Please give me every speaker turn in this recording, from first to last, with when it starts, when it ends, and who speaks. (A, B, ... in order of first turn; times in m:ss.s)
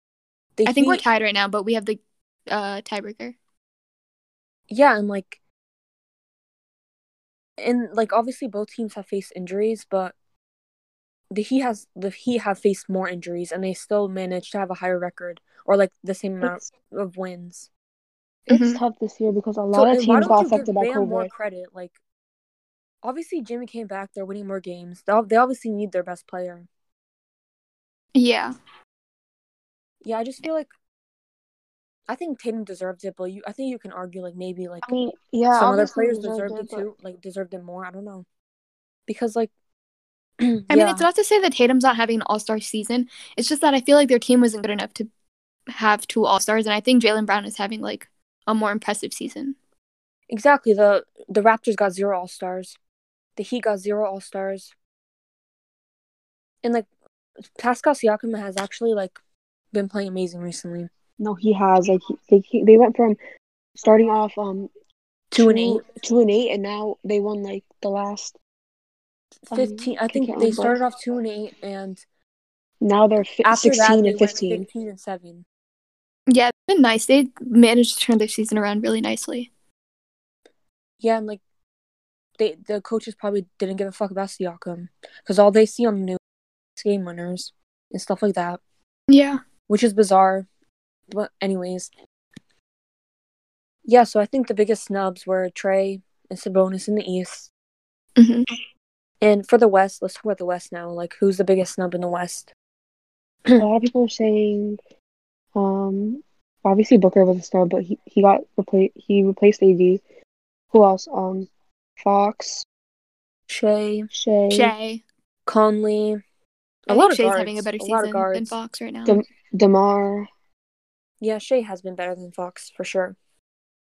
0:00.6-0:01.0 A
0:00.6-0:03.3 B
0:04.7-0:05.4 A
0:07.6-0:10.1 A
0:11.3-0:17.7 A
0:18.5-0:21.3 C
0:18.5-0:18.8 B
0:19.7-0:22.0 A
0:23.0-0:26.7 A
0:28.1-0:28.5 B
0:30.0-0:30.7 A
0:32.1-0:34.9 A
0:34.8-0:36.9 C
0:35.5-0:38.2 A
0:39.1-0:39.5 A
0:40.4-0:41.0 A
0:40.7-0:45.1 B
0:45.7-0:49.5 B
0:50.3-0:52.8 A
0:53.4-0:54.7 A
0:57.6-0:59.2 A
0:59.7-1:00.9 A
1:01.2-1:03.2 C
1:03.8-1:04.7 C
1:05.3-1:05.8 A
1:05.4-1:08.4 C
1:09.5-1:12.0 A
1:09.5-1:10.8 C
1:12.8-1:14.6 C
1:13.4-1:15.4 A
1:16.3-1:19.5 B
1:21.0-1:21.4 A
1:22.4-1:26.2 A
1:26.8-1:28.6 A
1:29.1-1:29.4 B
1:29.7-1:30.5 A
1:31.1-1:31.9 A
1:33.8-1:37.5 A
1:38.2-1:38.5 B
1:39.2-1:42.5 A
1:43.6-1:44.8 C
1:45.5-1:50.0 C
1:50.7-1:52.6 C
1:53.5-1:54.1 A
1:54.1-1:54.7 C
1:54.5-1:55.0 B
1:55.5-1:56.2 A
1:56.8-1:58.6 A
1:56.9-1:59.2 B
1:59.0-2:00.3 C
2:01.2-2:03.2 A